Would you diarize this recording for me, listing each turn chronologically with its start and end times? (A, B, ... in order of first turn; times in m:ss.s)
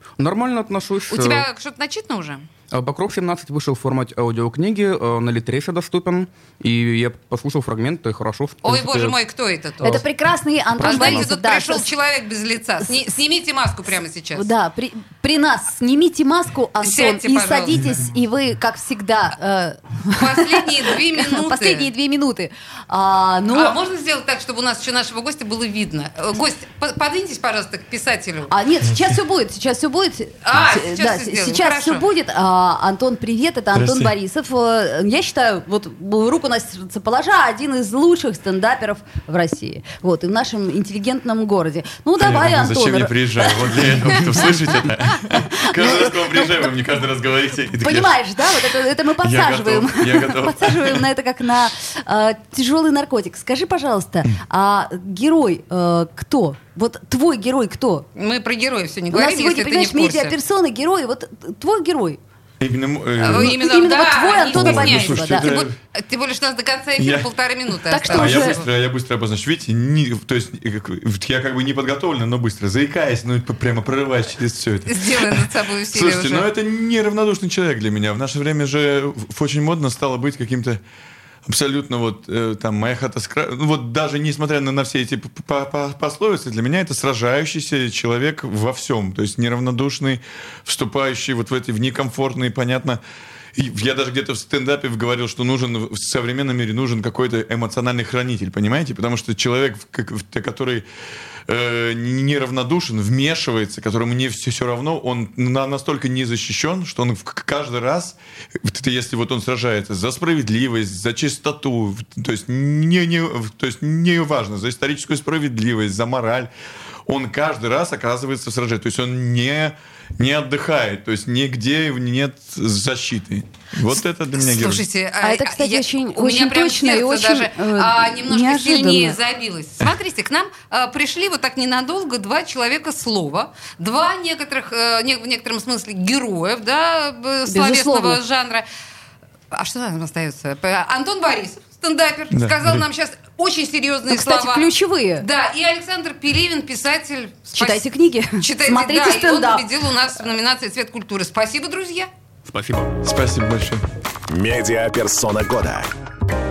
0:00.2-0:01.5 A
0:01.1-0:02.5 B
0:02.7-0:09.2 A
0:08.6-0:10.0 B
0:09.8-0:11.9 C
0:10.8-0:11.3 A
0:10.8-0:14.5 B
0:14.4-0:23.8 C
0:16.8-0:18.0 B
0:20.2-0:21.9 B
0:23.5-0:28.5 B
0:28.5-0:45.0 C
0:30.4-0:32.0 B
0:33.7-0:34.1 D
0:42.2-0:48.1 D
0:45.7-0:46.7 C
0:47.8-0:58.1 C
0:49.2-0:51.0 D
0:58.2-1:00.4 B
0:59.1-1:02.2 C
1:02.6-1:03.6 D
1:03.2-1:08.7 B
1:03.2-1:05.5 C
1:04.5-1:05.8 D
1:07.0-1:07.3 D
1:07.9-1:08.6 C
1:08.1-1:20.8 D
1:14.9-1:16.5 B
1:21.5-1:33.0 D
1:33.6-1:40.9 D
1:41.5-1:56.5 D
1:57.1-2:04.8 D
2:04.3-2:18.7 B
2:05.2-2:09.2 C
2:17.5-2:18.2 C
2:19.5-2:27.8 B
2:22.3-2:22.8 D
2:24.1-2:25.3 C
2:27.5-2:29.7 C
2:28.4-2:32.1 B
2:32.5-2:33.0 A
2:33.0-2:35.9 D